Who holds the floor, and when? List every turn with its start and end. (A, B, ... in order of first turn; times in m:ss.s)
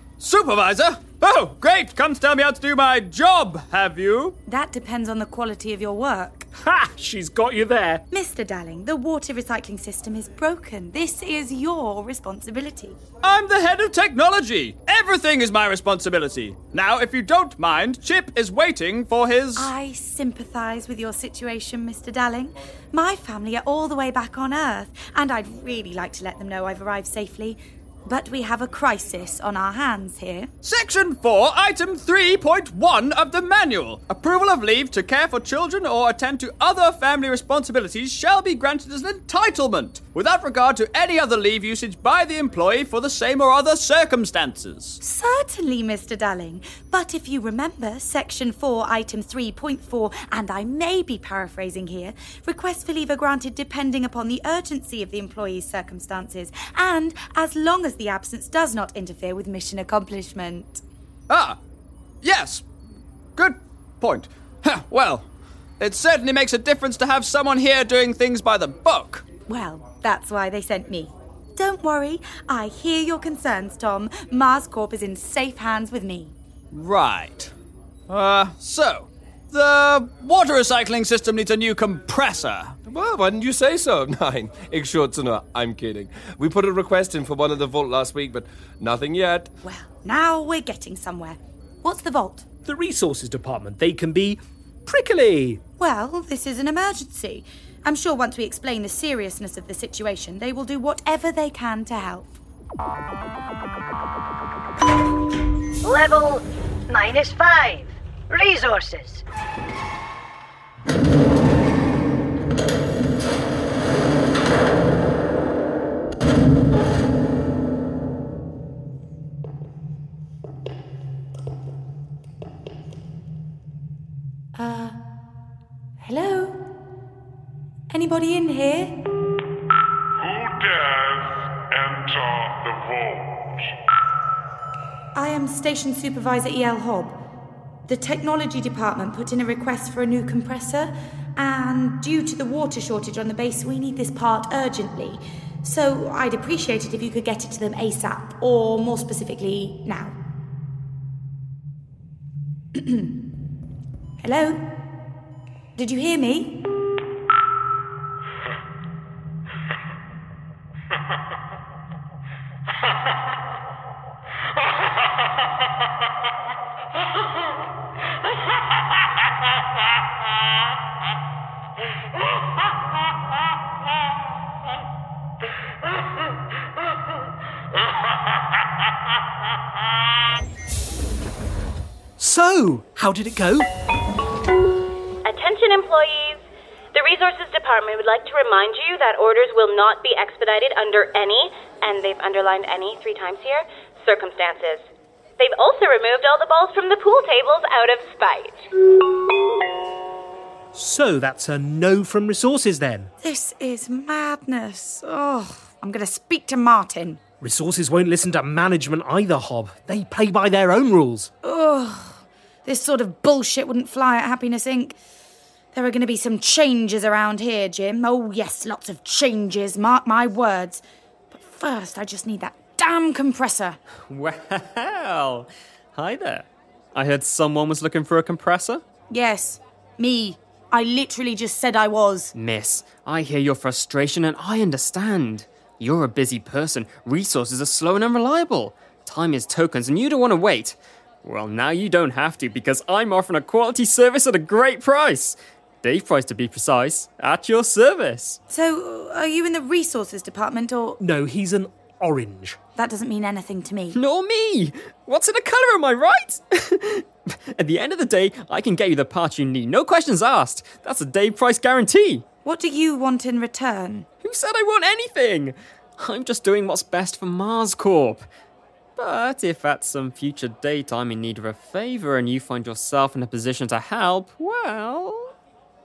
0:00.2-0:04.4 A
0:04.5-0:06.5 B
0:06.6-0:08.0 C
0:08.1-0:13.0 B
0:13.2-0:19.7 A
0:19.6-0:30.5 B
0:30.6-0:45.0 A
0:45.0-1:00.8 B
1:01.3-1:01.6 A
1:02.2-1:02.6 A
1:03.4-1:05.3 A
1:05.8-1:09.2 A
1:09.5-1:16.3 B
1:16.7-1:17.5 A
1:18.1-1:22.8 A
1:22.9-1:29.5 D
1:29.6-1:32.4 B
1:32.6-1:35.6 C
1:35.8-1:42.3 B
1:45.8-1:49.2 E
2:04.6-2:05.0 B
2:06.0-2:06.6 B
2:07.9-2:09.0 B
2:10.2-2:13.7 F
2:15.2-2:17.2 B
2:17.9-2:30.1 B
2:32.8-2:33.2 B
2:34.2-2:34.6 B
2:35.8-2:36.6 B
3:02.2-3:03.7 C
3:05.2-3:14.9 G
3:15.4-3:18.6 G
3:20.7-3:23.1 C
3:23.2-3:27.2 B
3:27.4-3:31.3 C
3:31.4-3:35.0 B
3:35.7-3:43.8 B
3:44.1-3:48.8 H
3:49.1-3:52.3 B
3:52.3-4:08.4 H
4:08.5-4:11.0 B
4:11.0-4:12.6 C
4:12.8-4:14.0 B
4:13.9-4:22.3 H
4:22.4-4:24.1 B
4:24.2-4:28.3 H
4:29.0-4:35.3 H